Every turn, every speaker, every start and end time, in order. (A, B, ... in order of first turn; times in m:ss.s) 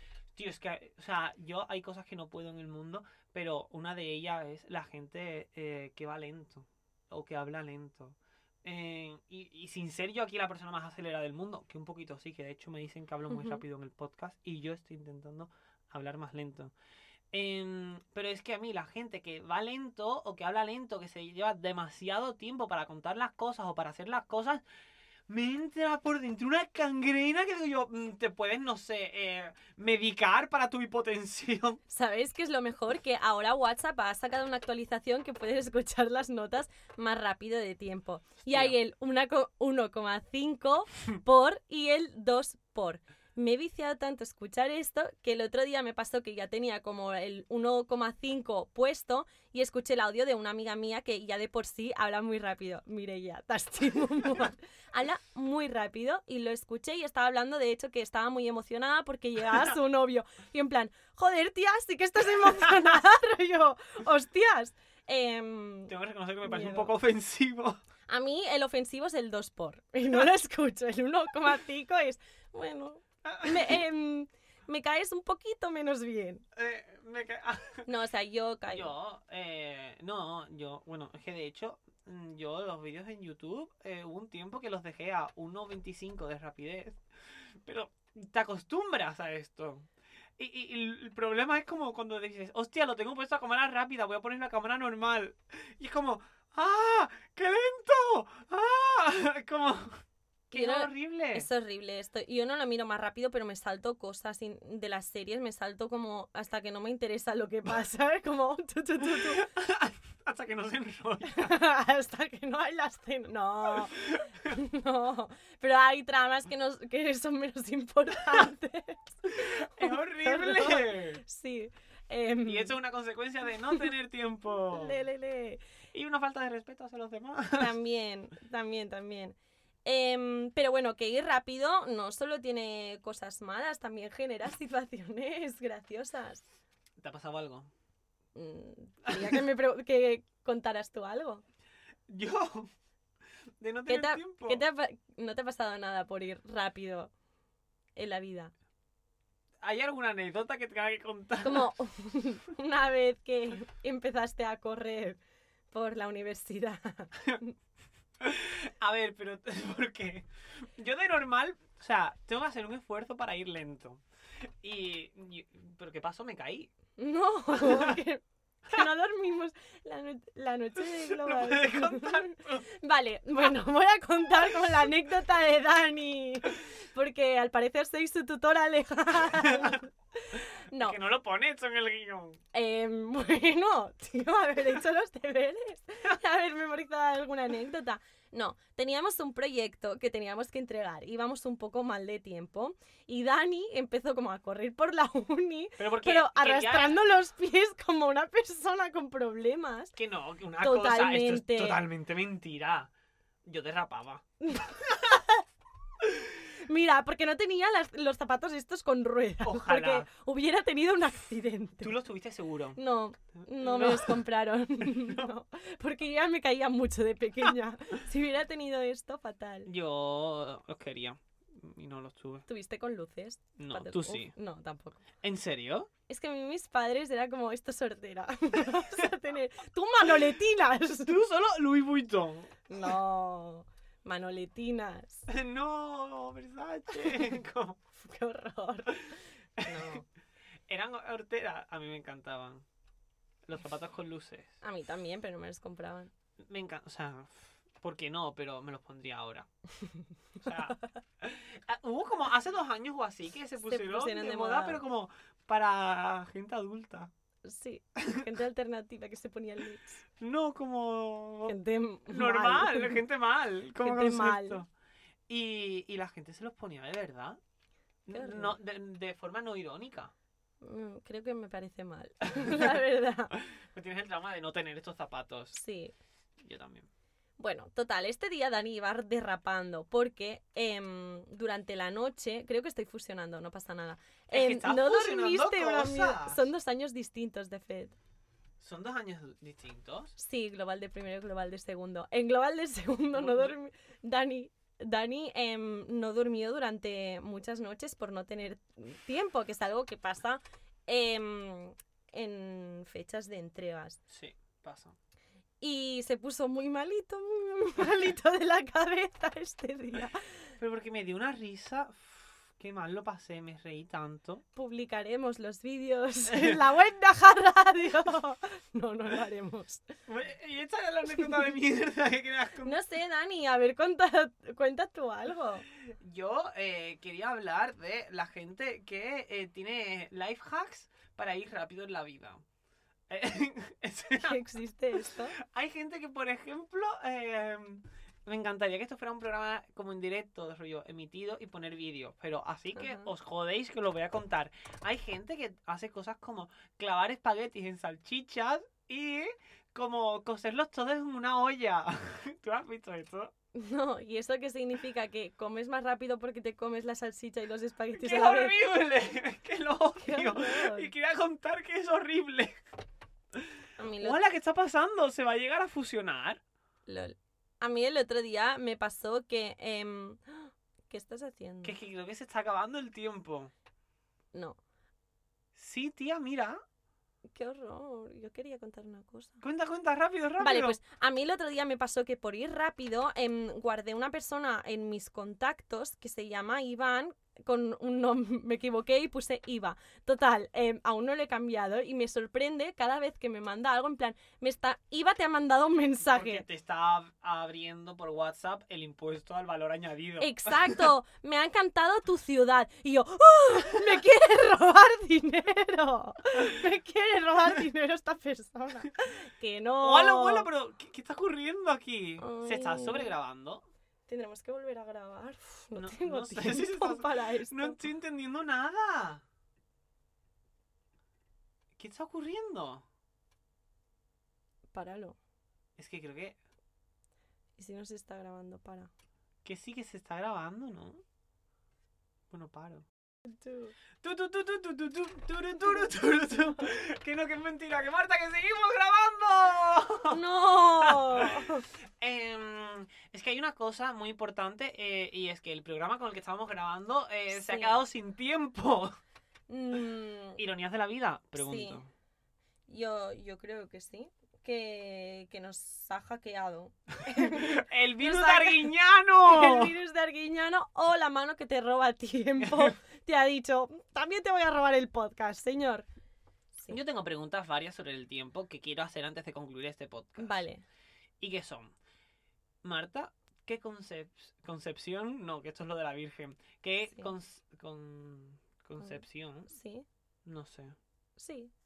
0:00.4-0:16.7 A
0:13.3-0:13.6 B
0:17.3-0:24.6 A
0:25.3-0:31.8 A
0:31.9-1:05.9 B
0:38.5-0:38.8 A
1:02.4-1:02.9 A
1:05.9-1:07.8 A
1:06.4-1:06.9 B
1:08.1-1:16.4 B
1:13.2-1:13.8 A
1:16.6-1:17.9 A
1:17.9-1:18.9 B
1:18.7-1:41.5 A
1:40.5-1:49.4 B
1:49.0-1:51.6 A
1:51.3-2:02.8 B
1:53.7-1:54.6 A
1:59.3-2:01.2 A
2:02.5-2:05.0 A
2:04.7-2:05.6 B
2:05.9-2:07.7 A
2:07.6-2:16.4 B
2:17.0-2:17.7 A
2:18.4-2:21.4 B
2:19.1-2:19.4 A
2:22.1-2:22.7 A
2:23.6-2:24.6 A
2:23.9-2:27.1 B
2:28.0-2:28.5 B
2:29.6-2:31.7 A
2:31.4-2:35.2 B
2:35.7-2:37.5 B
2:38.2-2:46.7 A
2:47.0-3:01.0 B
2:47.5-2:48.0 A
2:50.8-2:52.7 A
2:54.4-2:54.9 A
2:59.3-2:59.8 A
3:00.8-3:02.4 A
3:02.5-3:20.0 B
3:15.8-3:17.0 A
3:20.0-3:22.9 A
3:20.6-3:21.8 B
3:23.4-3:24.3 A
3:24.4-3:25.4 B
3:26.5-3:32.0 B
3:29.4-3:30.1 A
3:31.8-3:32.8 A
3:32.8-3:39.7 B
3:33.4-3:34.2 A
3:34.8-3:35.3 A
3:39.7-3:42.5 A
3:42.5-3:45.0 B
3:43.6-3:44.3 A
3:45.2-3:45.9 A
3:46.1-3:51.2 B
3:51.0-3:52.9 A
3:52.7-3:55.3 B
3:55.3-3:57.8 A
3:57.0-3:57.3 B
3:58.0-4:00.1 B
3:59.6-4:00.0 A
4:00.7-4:02.6 A
4:03.4-4:04.6 A
4:04.6-4:06.1 B
4:06.4-4:09.5 A
4:10.4-4:17.1 A
4:13.6-4:14.8 B
4:17.4-4:20.0 B
4:20.2-4:21.6 A
4:21.5-4:23.0 B
4:22.1-4:24.7 A
4:23.8-4:24.6 B
4:25.3-4:27.4 A
4:28.1-4:30.1 A
4:28.1-4:28.6 B
4:30.6-4:33.4 B
4:32.4-4:32.7 A
4:33.4-4:35.6 A
4:35.5-4:35.9 B
4:36.4-4:36.9 A
4:37.4-4:48.0 B
4:44.3-4:46.5 A
4:48.6-4:50.2 A
4:50.2-5:04.0 B
4:53.2-4:53.6 A
5:04.1-5:05.0 A
5:05.6-5:10.5 B
5:10.6-5:14.4 A
5:14.5-5:19.9 B
5:16.3-5:16.6 A
5:20.1-5:22.8 A
5:21.2-5:21.5 B
5:22.6-5:25.7 B
5:25.9-5:32.4 A
5:33.1-5:34.4 A
5:34.2-5:35.4 B
5:35.0-5:53.3 A
5:42.8-5:43.1 B
5:53.6-5:58.6 B
5:58.0-6:02.6 A
6:00.0-6:00.9 B
6:03.3-6:06.4 A
6:03.8-6:04.2 B
6:06.9-6:11.8 B
6:11.6-6:13.5 A
6:15.6-6:16.6 A
6:17.3-6:19.4 B
6:19.4-6:20.8 A
6:20.4-6:36.4 B
6:36.1-6:40.9 A
6:40.2-6:50.5 B
6:49.8-6:53.6 A
6:52.2-6:53.1 B
6:54.1-6:57.8 B
6:55.8-6:59.2 A
7:01.8-7:02.8 A
7:04.7-7:05.2 B
7:05.8-7:06.4 A
7:07.6-7:08.9 B
7:09.4-7:11.0 A
7:12.3-7:12.9 A
7:13.3-7:13.7 B
7:14.0-7:20.2 A
7:20.1-7:21.7 B
7:20.8-7:29.0 A
7:27.3-7:27.7 B
7:29.5-7:30.4 B
7:30.4-7:31.9 A
7:31.4-7:31.8 B
7:32.7-7:38.7 B
7:37.1-7:39.7 A
7:39.2-7:45.9 B
7:42.4-7:42.7 A
7:46.7-7:50.4 A
7:50.2-7:50.6 B
7:51.2-7:51.7 A
7:52.6-7:59.5 A
7:58.8-7:59.9 B
8:00.2-8:00.8 A
8:01.2-8:01.5 B